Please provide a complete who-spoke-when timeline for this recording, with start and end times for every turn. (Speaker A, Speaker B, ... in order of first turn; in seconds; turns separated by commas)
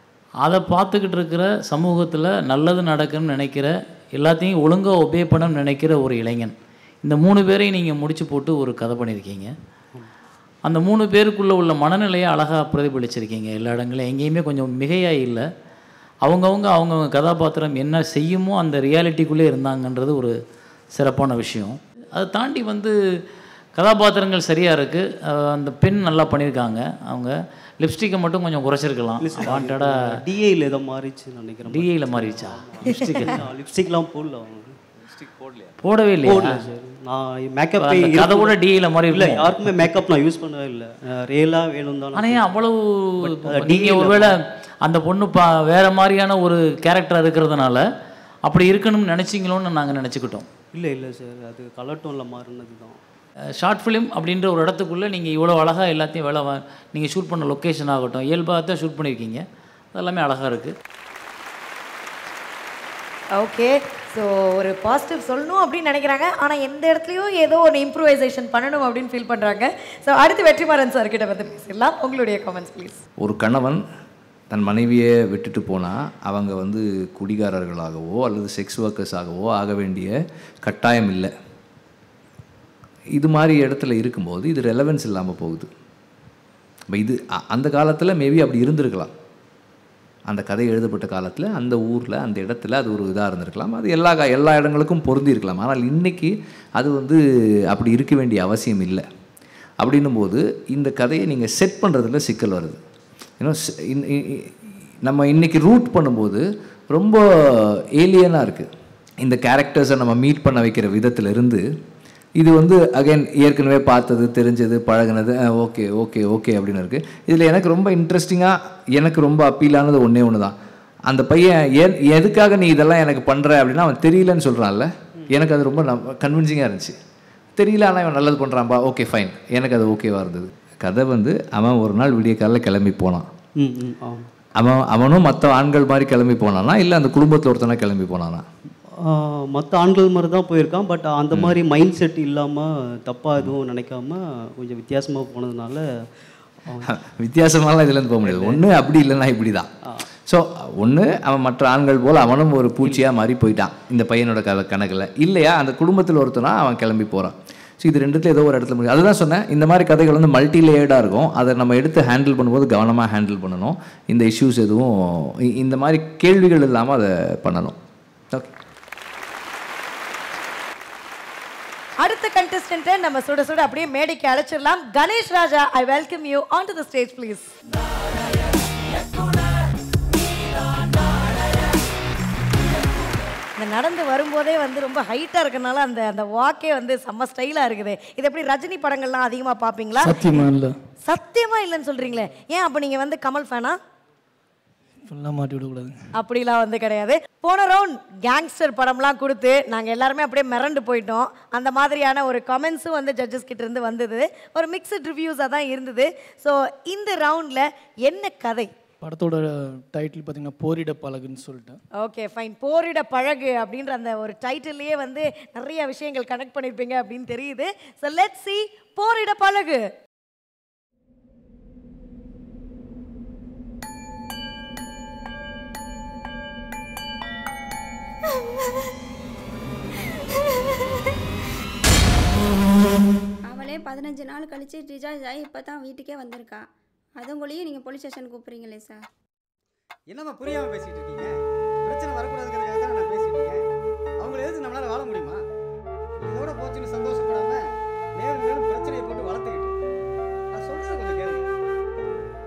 Speaker A: 0.4-6.5, Speaker A: 7.0-9.5, Speaker A: 10.6-15.4, Speaker A: 16.2-20.3, Speaker A: 20.9-22.9, Speaker A: 23.8-29.9, Speaker B: 29.2-34.8, Speaker A: 31.7-33.2, Speaker C: 35.2-35.5, Speaker A: 35.8-36.6, Speaker B: 36.2-38.6, Speaker A: 37.8-39.6, Speaker B: 39.1-42.5, Speaker A: 42.1-47.8, Speaker B: 43.2-44.4, Speaker A: 48.5-50.5, Speaker B: 50.7-53.0, Speaker A: 53.6-60.7, Speaker D: 63.4-73.0, Speaker C: 73.2-73.8, Speaker C: 74.5-81.3, Speaker C: 83.1-85.7, Speaker C: 86.9-89.1, Speaker C: 90.3-97.2, Speaker C: 97.7-99.0, Speaker C: 99.8-102.8, Speaker C: 103.4-108.7, Speaker C: 109.2-111.6, Speaker C: 112.4-120.5, Speaker C: 121.1-126.9, Speaker C: 127.6-133.3, Speaker B: 133.6-134.3, Speaker C: 134.6-138.4, Speaker B: 139.0-145.8, Speaker C: 141.3-141.6, Speaker B: 146.7-147.0, Speaker C: 146.9-149.7, Speaker B: 148.2-148.6, Speaker C: 150.2-167.8, Speaker D: 172.0-177.5, Speaker D: 183.6-190.2, Speaker E: 190.0-190.7, Speaker D: 191.1-193.8, Speaker E: 195.1-195.9, Speaker D: 196.2-208.7, Speaker E: 209.0-211.8, Speaker D: 212.0-219.8, Speaker F: 233.5-236.6, Speaker F: 237.2-239.1, Speaker G: 240.1-241.3, Speaker G: 241.8-243.6, Speaker G: 244.2-245.4, Speaker G: 246.2-247.6, Speaker G: 248.2-249.8, Speaker G: 250.5-251.4